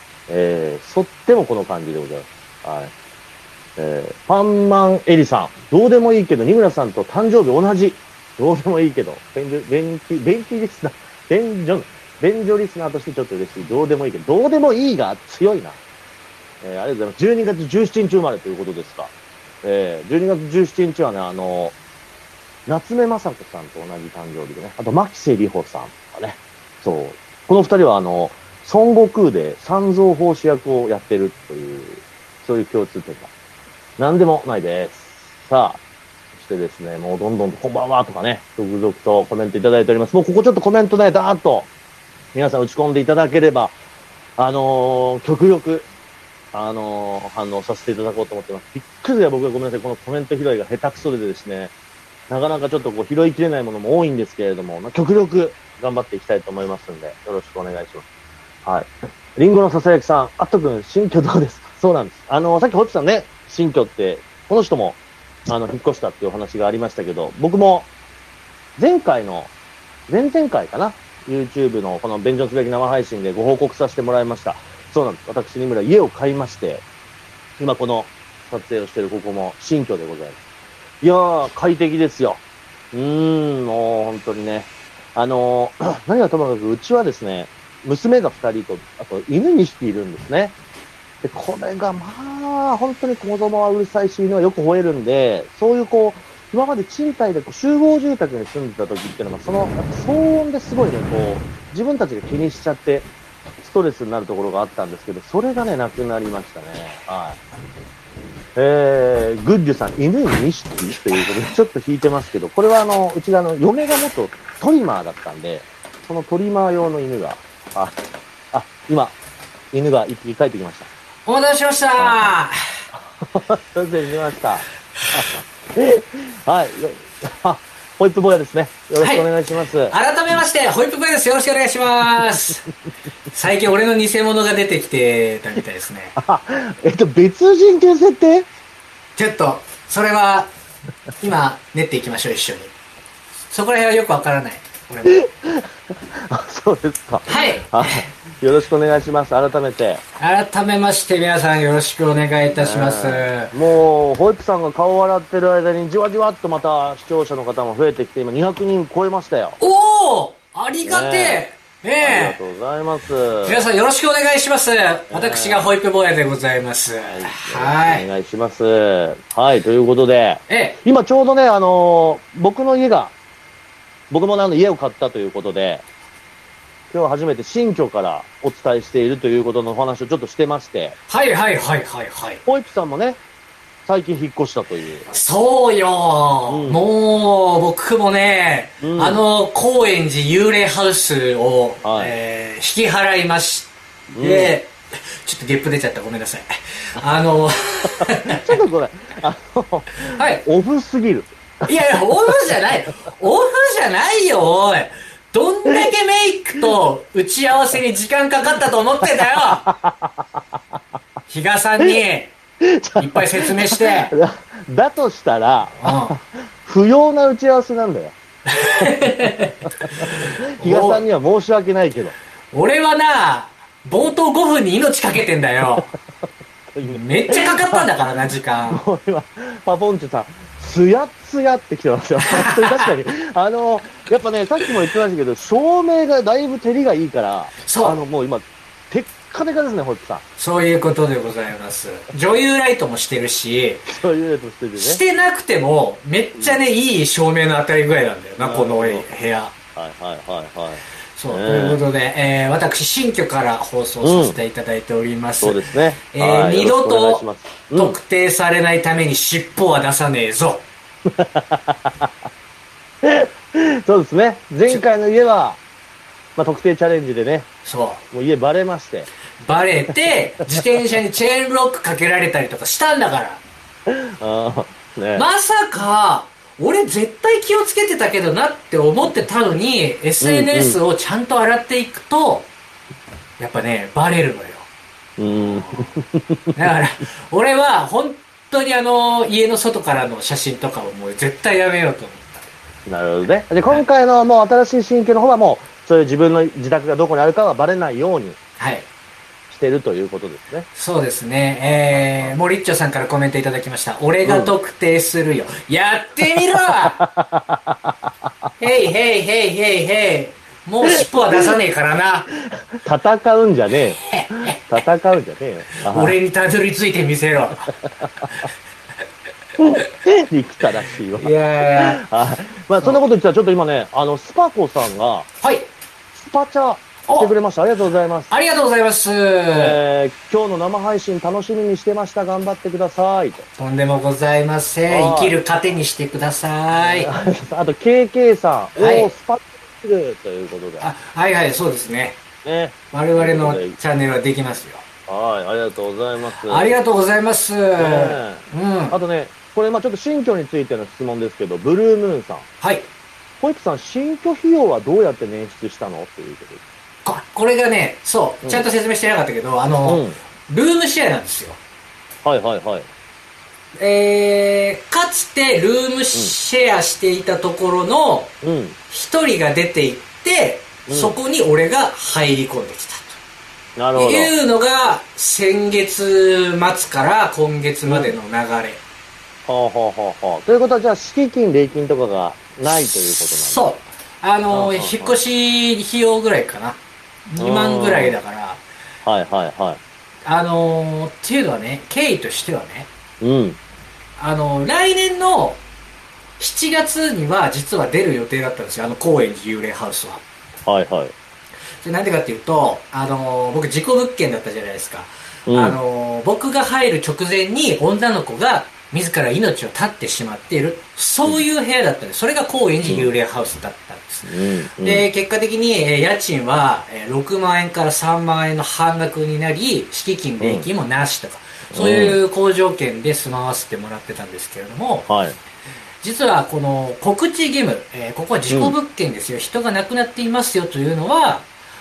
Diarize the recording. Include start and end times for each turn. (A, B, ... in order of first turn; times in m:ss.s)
0:00.3-0:02.9 A
0:03.8-0:15.8 A
0:16.6-0:21.8 A
0:22.7-0:33.3 A
0:34.0-0:35.8 A
0:36.4-0:41.7 A
0:42.3-0:43.8 A
0:44.4-0:45.9 A
0:46.5-0:51.7 A
0:52.3-0:58.1 A
0:58.6-1:07.9 A
1:08.8-1:09.5 A
1:10.1-1:16.8 A
1:17.6-1:20.4 A
1:21.0-1:30.6 A
1:31.2-1:43.1 A
1:43.6-1:47.4 A
1:48.6-1:58.0 A
1:58.5-1:59.2 A
1:59.7-2:00.9 A
2:01.3-2:02.6 B
2:02.0-2:02.3 A
2:02.9-2:10.0 A
2:09.0-2:09.3 B
2:09.9-2:12.7 B
2:13.3-2:16.2 B
2:16.2-2:18.5 A
2:19.2-2:20.5 B
2:21.2-2:22.7 B
2:23.5-2:25.2 B
2:25.1-2:30.0 A
2:27.3-2:28.1 B
2:30.2-2:33.5 B
2:32.5-2:39.6 A
2:39.6-2:42.4 B
2:40.8-2:41.4 A
2:42.0-2:43.6 A
2:43.4-2:48.1 B
2:45.1-2:45.7 A
2:47.0-2:53.1 A
2:50.5-2:50.8 B
2:54.1-2:55.8 A
2:56.9-3:01.0 A
3:01.1-3:02.4 B
3:02.5-3:03.2 A
3:03.9-3:05.1 A
3:05.1-3:18.6 B
3:06.5-3:06.8 A
3:08.8-3:09.2 A
3:11.8-3:12.1 A
3:14.1-3:14.6 A
3:18.2-3:21.7 A
3:20.1-3:20.4 B
3:21.7-3:29.7 B
3:29.5-3:30.3 A
3:31.3-3:32.4 B
3:32.6-3:38.2 A
3:33.0-3:34.2 B
3:35.8-3:36.2 B
3:38.5-3:41.0 B
3:39.8-3:42.2 A
3:42.5-3:45.9 B
3:46.7-3:47.9 A
3:46.9-3:48.8 B
3:48.7-4:00.2 A
3:52.2-3:52.9 B
3:57.6-3:58.0 B
4:00.4-4:03.9 B
4:03.9-4:05.0 A
4:04.8-4:09.5 B
4:08.4-4:09.1 A
4:09.8-4:11.8 A
4:11.2-4:15.6 B
4:14.0-4:14.4 A
4:15.4-4:18.0 A
4:16.1-4:17.2 B
4:17.8-4:20.7 B
4:21.1-4:22.1 A
4:23.0-4:25.6 A
4:26.4-4:27.5 A
4:27.6-4:28.0 B
4:28.1-4:29.1 A
4:29.4-4:33.4 B
4:33.9-4:35.2 A
4:35.2-4:42.5 B
4:40.2-4:40.8 A
4:43.4-4:44.7 B
4:45.2-4:46.4 A
4:45.3-4:45.9 B
4:46.5-4:52.5 B
4:52.9-4:58.4 A
4:58.6-4:58.9 B
4:59.5-5:00.7 A
5:00.8-5:07.0 B
5:01.9-5:02.4 A
5:04.2-5:04.5 A
5:06.7-5:08.0 A
5:08.6-5:12.3 B
5:11.0-5:11.6 A
5:12.8-5:16.2 A
5:14.0-5:14.6 B
5:15.8-5:17.8 B
5:19.6-5:25.3 A
5:21.2-5:22.0 B
5:25.4-5:25.7 B
5:26.1-5:28.3 A
5:27.1-5:27.3 B
5:28.3-5:29.8 B
5:29.6-5:33.5 A
5:33.6-5:37.1 B
5:34.9-5:35.4 A
5:36.7-5:40.9 A
5:38.8-5:39.1 B
5:40.8-5:42.2 B
5:42.4-5:43.8 A
5:42.9-5:44.8 B
5:45.1-5:46.8 A
5:46.4-5:49.0 B
5:47.8-5:52.5 A
5:52.6-5:52.9 B
5:53.4-5:56.6 A
5:57.0-6:01.6 B
5:59.8-6:00.2 A
6:02.2-6:02.9 A
6:03.8-6:08.3 B
6:08.4-6:08.8 A
6:08.9-6:13.2 B
6:10.9-6:11.2 A
6:13.8-6:14.3 A
6:14.0-6:18.8 B
6:17.9-6:18.2 A
6:19.5-6:23.6 A
6:22.6-6:28.6 B
6:24.5-6:25.2 A
6:27.4-6:28.2 A
6:29.0-6:29.8 A
6:30.2-6:32.9 B
6:33.2-6:33.6 A
6:34.2-6:35.6 B
6:36.4-6:40.2 B
6:40.7-6:41.1 A
6:41.8-7:05.1 B
6:45.5-6:45.8 A
6:52.8-6:53.1 A
6:54.3-6:55.1 A
7:00.4-7:00.7 A
7:01.7-7:02.2 A
7:05.1-7:05.4 A
7:06.0-7:11.5 B
7:08.5-7:08.8 A